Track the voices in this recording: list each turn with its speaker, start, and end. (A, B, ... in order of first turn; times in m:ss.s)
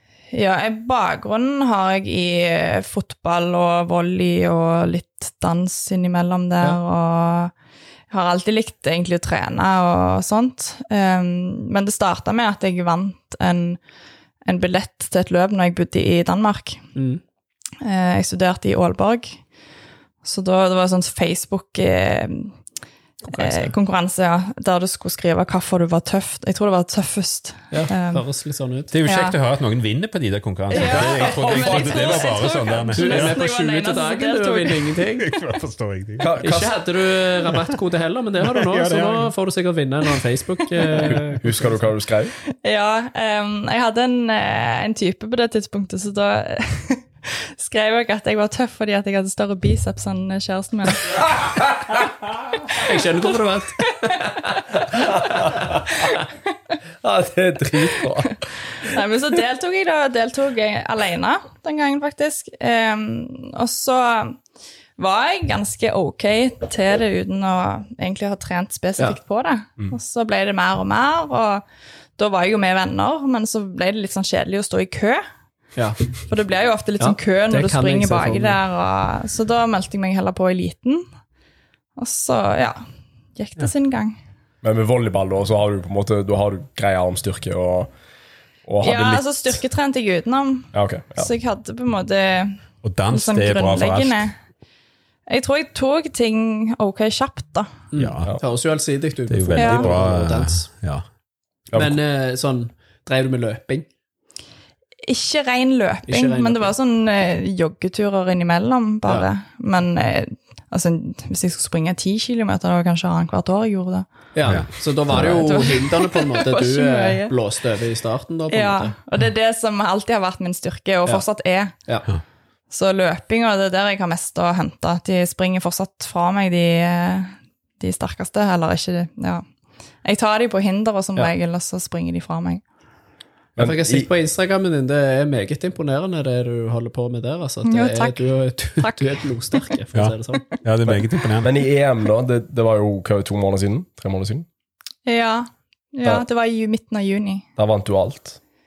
0:00.3-0:07.5 A
0:08.1-0:13.8 A
0:14.4-0:16.8 A
0:16.9-0:17.2 B
0:17.8-0:19.4 A
0:20.2-0:22.5 A
0:23.2-0:23.7 B
0:23.4-0:28.2 A
0:27.7-0:28.9 B
0:28.9-0:33.4 C
0:29.0-0:29.3 A
0:30.7-0:35.0 A
0:31.5-0:31.8 D
0:32.9-0:35.3 B
0:35.2-0:36.6 C
0:36.2-0:36.8 D
0:36.4-0:41.5 B
0:38.4-0:39.3 C
0:41.0-0:41.3 C
0:41.1-0:42.3 D
0:42.6-0:51.2 A
0:52.7-0:54.3 B
0:54.9-0:55.9 D
0:57.0-0:58.3 D
0:58.8-1:04.4 A
1:05.0-1:11.6 A
1:12.2-1:15.2 A
1:15.8-1:16.0 B
1:16.2-1:21.0 A
1:17.0-1:18.6 B
1:22.0-1:22.8 A
1:23.4-1:24.2 A
1:24.6-1:27.9 D
1:28.6-1:29.2 D
1:28.8-1:34.3 A
1:30.7-1:31.3 D
1:32.8-1:34.3 C
1:35.3-1:37.7 A
1:37.9-1:40.7 B
1:38.0-1:38.3 C
1:39.3-1:41.0 C
1:39.5-1:40.0 A
1:41.7-1:42.0 D
1:41.7-1:43.8 B
1:45.1-1:54.1 A
1:46.0-1:46.7 B
1:54.3-1:58.9 B
1:54.4-1:55.2 C
1:55.0-1:57.3 A
1:58.5-2:01.7 A
2:02.7-2:09.4 A
2:10.0-2:12.6 A
2:13.6-2:14.1 D
2:13.6-2:20.6 B
2:17.6-2:19.8 A
2:19.9-2:21.5 C
2:20.9-2:24.4 D
2:25.0-2:27.4 A
2:27.6-2:28.4 D